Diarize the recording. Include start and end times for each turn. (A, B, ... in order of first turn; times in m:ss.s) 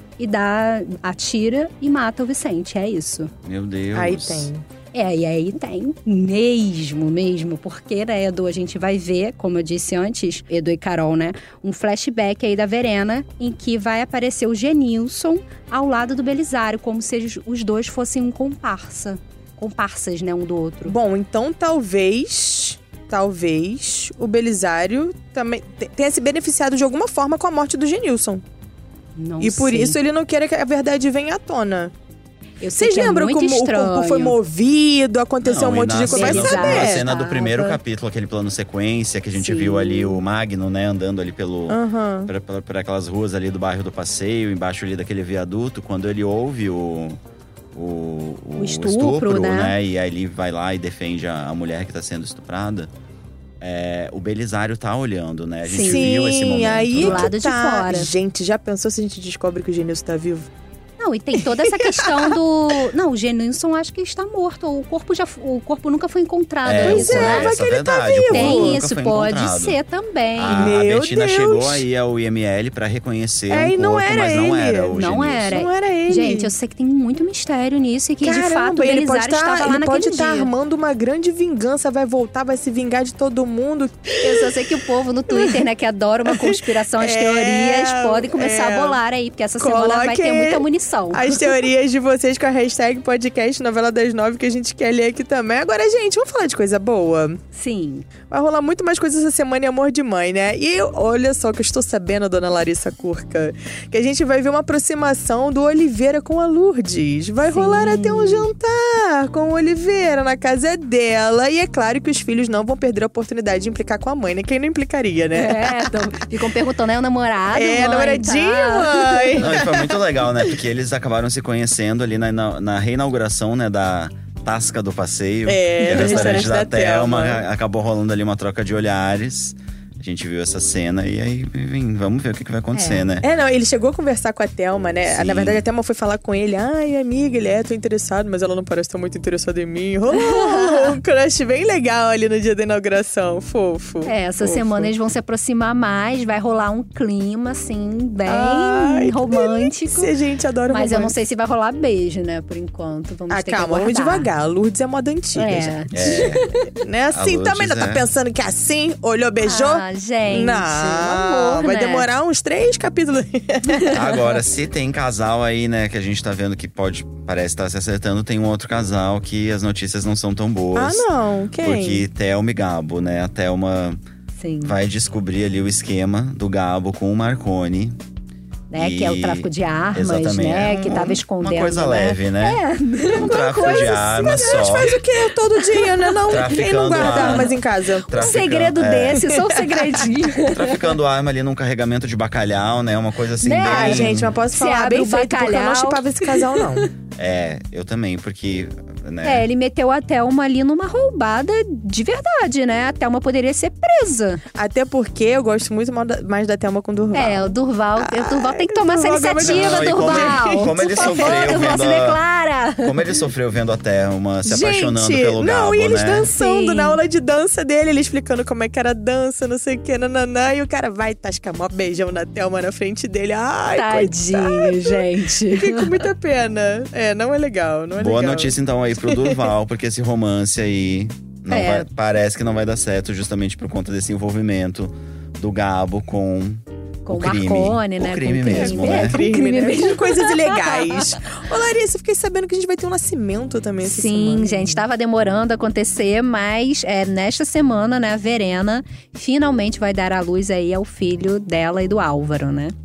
0:00.2-0:03.3 A
0:03.4-0:04.5 B
0:03.9-0:04.6 C
0:04.9-0:21.0 A
0:20.8-0:28.4 C
0:29.2-0:30.0 A
0:29.4-0:31.9 C
0:32.6-0:34.4 A
0:32.8-0:37.1 C
0:35.4-0:47.2 B
0:36.0-0:37.8 A
0:39.3-0:40.2 A
0:41.7-0:42.3 C
0:47.7-0:52.9 B
0:48.6-0:49.7 A
0:53.6-0:57.3 B
0:55.6-0:56.0 A
0:55.7-1:00.5 C
0:57.0-0:58.1 A
1:01.0-1:07.7 A
1:01.4-1:02.4 C
1:06.6-1:09.8 B
1:06.8-1:08.8 C
1:08.3-1:10.8 A
1:10.4-1:15.6 B
1:10.4-1:11.9 C
1:13.5-1:15.0 C
1:14.9-1:20.5 A
1:15.5-1:16.5 C
1:18.2-1:24.5 C
1:24.2-1:31.4 A
1:25.3-1:25.7 C
1:26.3-1:29.0 C
1:29.6-1:37.4 C
1:37.5-1:38.1 A
1:38.3-1:56.0 C
1:47.5-1:48.5 A
1:55.3-1:59.4 A
1:57.5-2:00.0 C
1:59.4-2:13.3 B
2:05.5-2:07.4 C
2:05.8-2:06.6 A
2:12.7-2:13.1 A
2:13.2-2:24.9 C
2:15.1-2:15.6 B
2:20.2-2:20.9 A
2:24.0-2:30.1 A
2:28.3-2:31.2 C
2:30.7-2:34.3 A
2:33.3-2:44.0 C
2:35.4-2:36.6 A
2:35.9-2:36.5 B
2:37.1-2:38.1 B
2:39.4-2:42.1 A
2:43.7-2:44.0 A
2:43.9-2:51.1 B
2:50.7-2:52.1 C
2:51.6-2:54.0 B
2:54.4-2:54.8 A
2:54.6-2:58.0 B
2:58.7-3:04.9 A
2:58.8-3:02.6 B
3:03.1-3:05.0 B
3:03.2-3:08.4 C
3:05.6-3:07.6 A
3:06.3-3:07.5 B
3:08.1-3:09.2 B
3:08.1-3:10.9 A
3:09.1-3:10.1 C
3:10.5-3:14.4 B
3:13.4-3:16.8 A
3:13.6-3:16.9 C
3:17.2-3:19.5 B
3:19.2-3:24.4 A
3:24.6-3:31.9 C
3:27.1-3:33.1 A
3:29.4-3:32.2 B
3:32.8-3:36.3 B
3:34.4-3:49.5 C
3:36.2-3:37.0 A
3:43.7-3:46.0 A
3:48.0-3:59.2 B
3:51.5-3:51.9 A
3:57.0-4:01.0 A
3:58.5-4:04.8 C
4:03.8-4:12.7 A